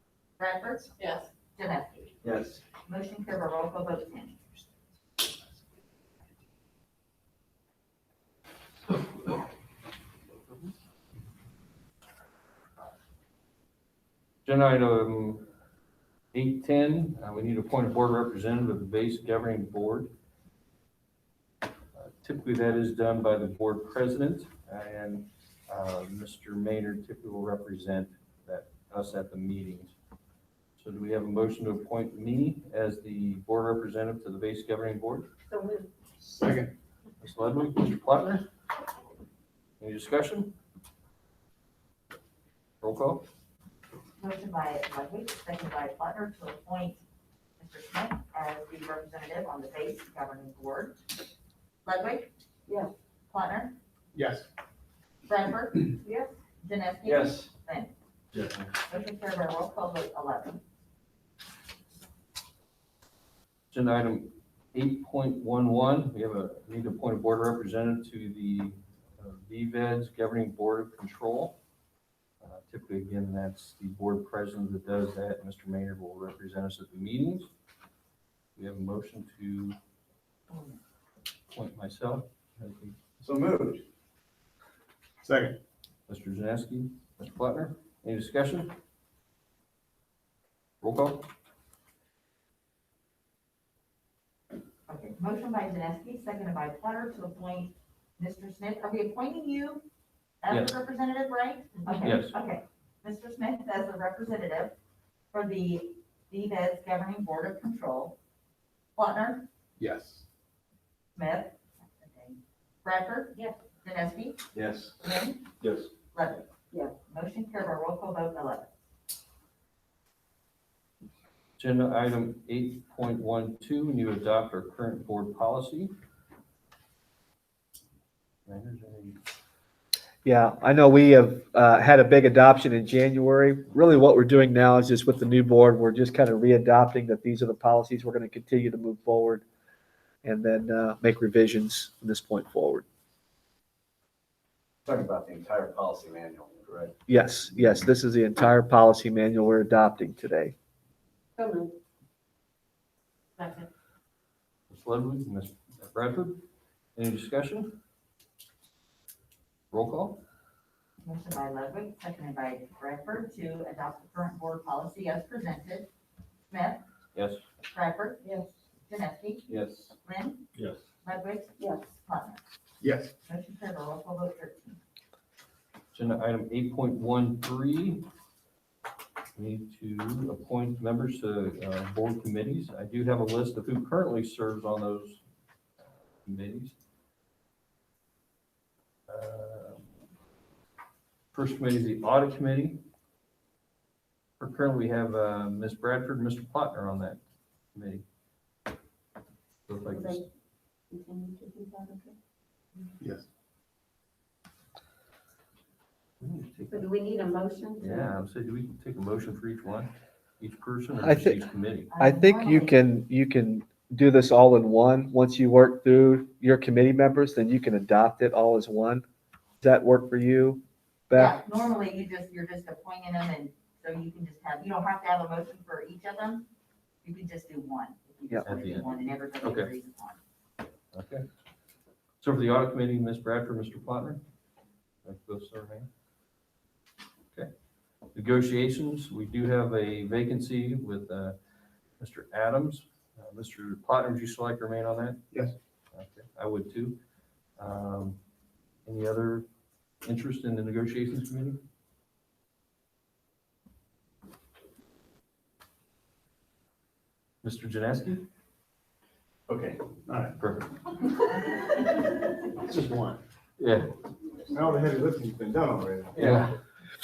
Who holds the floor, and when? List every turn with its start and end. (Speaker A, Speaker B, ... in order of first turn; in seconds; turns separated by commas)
Speaker A: 0.4-2.1, Speaker B: 2.2-2.6, Speaker A: 2.8-4.4, Speaker C: 14.4-15.4, Speaker C: 16.3-20.1, Speaker C: 21.9-29.9, Speaker C: 30.8-35.3, Speaker D: 35.5-35.9, Speaker E: 36.2-36.7, Speaker C: 37.2-38.4, Speaker C: 39.8-40.5, Speaker C: 42.8-43.2, Speaker A: 44.2-47.0, Speaker A: 47.6-51.0, Speaker A: 51.8-52.3, Speaker A: 53.3-53.7, Speaker E: 54.1-54.5, Speaker A: 55.2-55.9, Speaker D: 56.0-56.3, Speaker A: 56.6-57.9, Speaker B: 57.1-57.3, Speaker A: 58.9-60.6, Speaker C: 63.7-71.5, Speaker C: 72.4-77.5, Speaker C: 78.5-79.8, Speaker A: 80.5-80.8, Speaker C: 81.5-83.0, Speaker E: 83.2-83.8, Speaker E: 85.2-85.6, Speaker C: 86.1-88.7, Speaker C: 90.8-91.3, Speaker A: 94.9-99.8, Speaker A: 100.4-104.7, Speaker C: 100.5-100.7, Speaker C: 102.0-102.3, Speaker A: 105.3-108.2, Speaker A: 109.0-109.5, Speaker E: 109.8-110.2, Speaker A: 111.2-114.4, Speaker A: 115.0-115.4, Speaker A: 116.1-116.5, Speaker A: 117.1-118.7, Speaker C: 121.6-125.9, Speaker C: 128.4-129.2, Speaker F: 130.2-139.4, Speaker F: 140.2-142.8, Speaker B: 144.9-146.8, Speaker F: 147.1-150.5, Speaker D: 151.4-151.7, Speaker D: 153.4-153.7, Speaker C: 154.7-156.4, Speaker C: 156.9-157.8, Speaker C: 159.7-160.2, Speaker A: 161.0-165.9, Speaker A: 166.5-166.8, Speaker C: 167.1-167.4, Speaker A: 167.7-168.2, Speaker D: 168.2-168.5, Speaker A: 168.9-169.4, Speaker C: 169.5-169.9, Speaker A: 170.0-170.4, Speaker A: 171.0-172.4, Speaker D: 171.6-171.8, Speaker E: 172.8-173.1, Speaker A: 173.2-174.8, Speaker C: 175.9-178.1, Speaker C: 179.3-185.2, Speaker C: 186.2-186.7, Speaker C: 189.1-189.8, Speaker C: 191.3-192.8, Speaker C: 194.4-197.2, Speaker C: 197.7-198.0, Speaker C: 199.7-200.2, Speaker D: 199.9-200.2, Speaker D: 200.9-202.1, Speaker E: 203.0-203.2, Speaker C: 206.2-206.9, Speaker D: 206.7-208.1, Speaker C: 207.8-211.9, Speaker F: 211.0-211.4, Speaker A: 211.9-212.8, Speaker F: 211.9-219.0, Speaker F: 219.6-221.3, Speaker A: 221.1-226.5, Speaker A: 227.0-230.2, Speaker C: 228.4-229.7, Speaker C: 230.9-231.2, Speaker C: 232.2-234.2, Speaker C: 235.0-235.9, Speaker C: 238.1-241.4, Speaker C: 242.0-245.2, Speaker C: 245.9-247.0, Speaker C: 247.6-248.2, Speaker C: 248.8-249.4, Speaker C: 250.0-251.6, Speaker C: 257.4-258.2, Speaker E: 260.1-260.3, Speaker C: 260.4-260.7, Speaker E: 262.6-263.2, Speaker C: 263.6-263.9, Speaker E: 264.5-266.5, Speaker C: 266.1-266.6